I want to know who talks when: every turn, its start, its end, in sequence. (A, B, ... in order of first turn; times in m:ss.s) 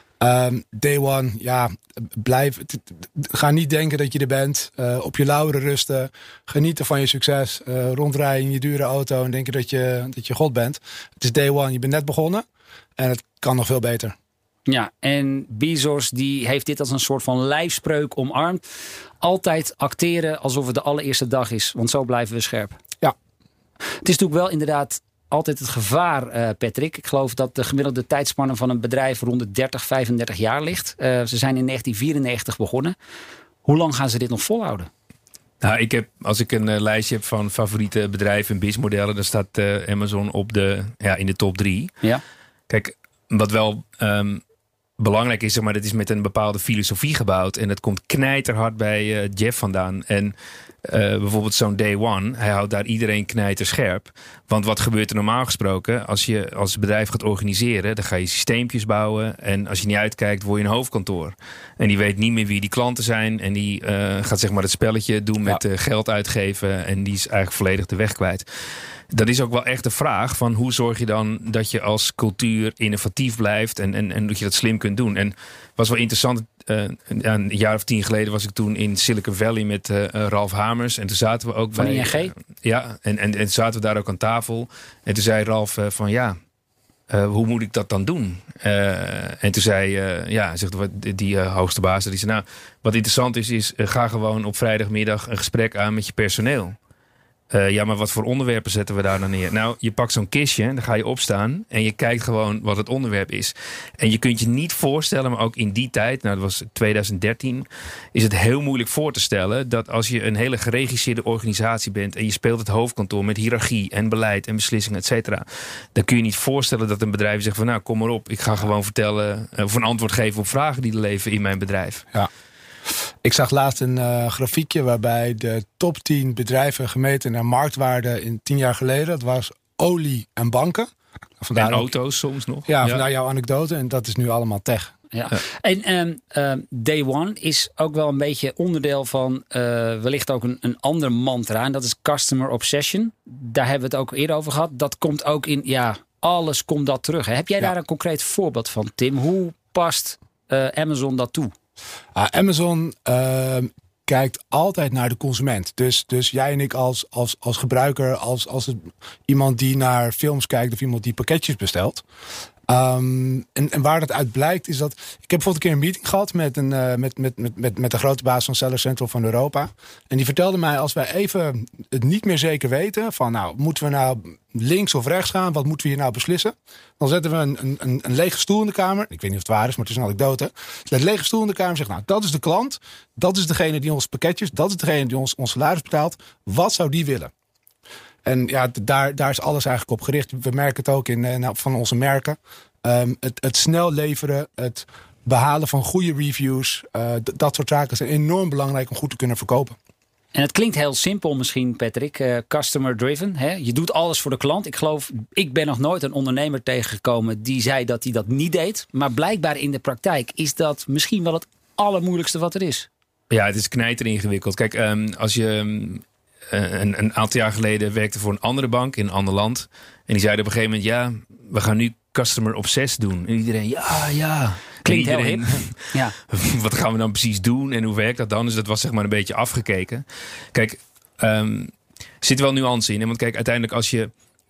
0:00.2-0:12.4 A
0:13.0-0:14.1 A
0:14.7-0:18.6 B
0:19.2-0:22.8 B
0:24.0-0:32.9 B
0:33.6-0:34.9 B
0:35.6-0:42.0 C
0:42.7-0:44.4 C
0:45.0-1:08.4 C
1:09.1-1:26.4 C
1:21.8-1:22.3 B
1:27.1-1:36.8 C
1:37.5-2:02.0 C
2:03.2-2:10.9 A
2:11.4-2:11.9 A
2:11.6-2:13.0 C
2:12.7-2:14.9 A
2:15.1-2:31.5 B
2:32.1-2:42.0 A
2:42.7-3:07.3 A
3:08.2-3:19.8 A
3:20.3-3:32.9 B
3:33.3-3:54.1 C
3:44.8-3:46.1 B